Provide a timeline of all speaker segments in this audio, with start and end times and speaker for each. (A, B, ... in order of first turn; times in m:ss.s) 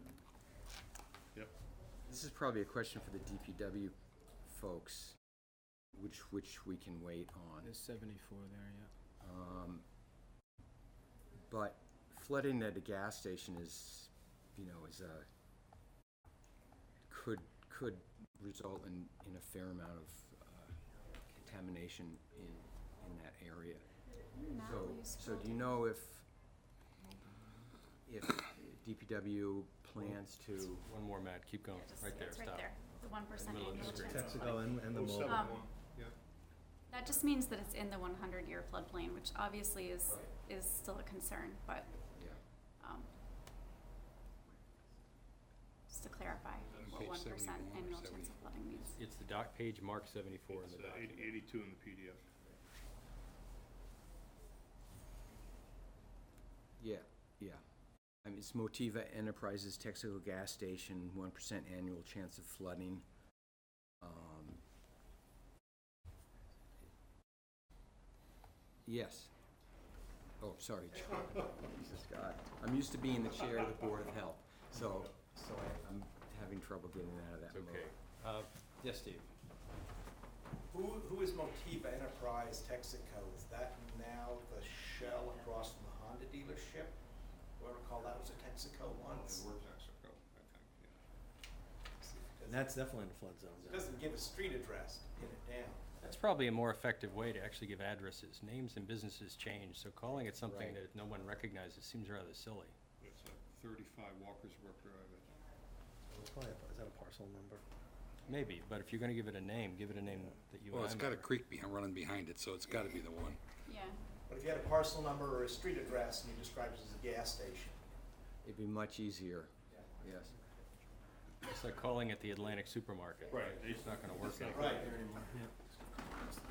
0:02.0-0:05.2 A
0:05.9-0:07.7 A
0:07.6-0:08.9 B
0:09.2-0:09.8 A
0:11.4-0:15.3 A
0:17.1-0:23.8 A
0:24.4-0:25.7 C
0:24.6-0:26.3 A
0:27.0-0:27.6 B
0:28.1-0:30.8 A
0:30.8-0:32.7 D
0:31.7-0:35.6 C
0:33.3-0:34.2 D
0:33.7-0:35.6 E
0:34.1-0:36.2 F
0:36.9-0:41.9 C
0:42.8-0:43.1 C
0:45.9-0:49.0 C
0:46.8-0:47.0 F
0:46.8-0:48.4 G
0:48.8-0:51.4 D
0:50.5-0:52.2 F
0:56.8-0:57.6 A
0:58.2-1:03.0 A
1:04.0-1:04.6 A
1:08.8-1:09.3 A
1:10.4-1:17.9 A
1:17.5-1:19.3 D
1:20.7-1:27.0 H
1:27.6-1:29.5 H
1:29.0-1:31.0 F
1:32.0-1:32.7 H
1:32.4-1:33.8 E
1:33.6-1:35.8 H
1:36.0-1:42.7 D
1:43.0-1:45.3 F
1:46.1-1:47.6 E
1:48.2-1:51.3 D
1:50.7-1:53.4 G
1:53.6-1:54.0 C
1:54.3-1:57.8 H
1:58.4-2:00.3 A
2:01.4-2:04.9 D
2:03.3-2:05.3 F
2:04.5-2:04.9 H
2:04.9-2:05.4 B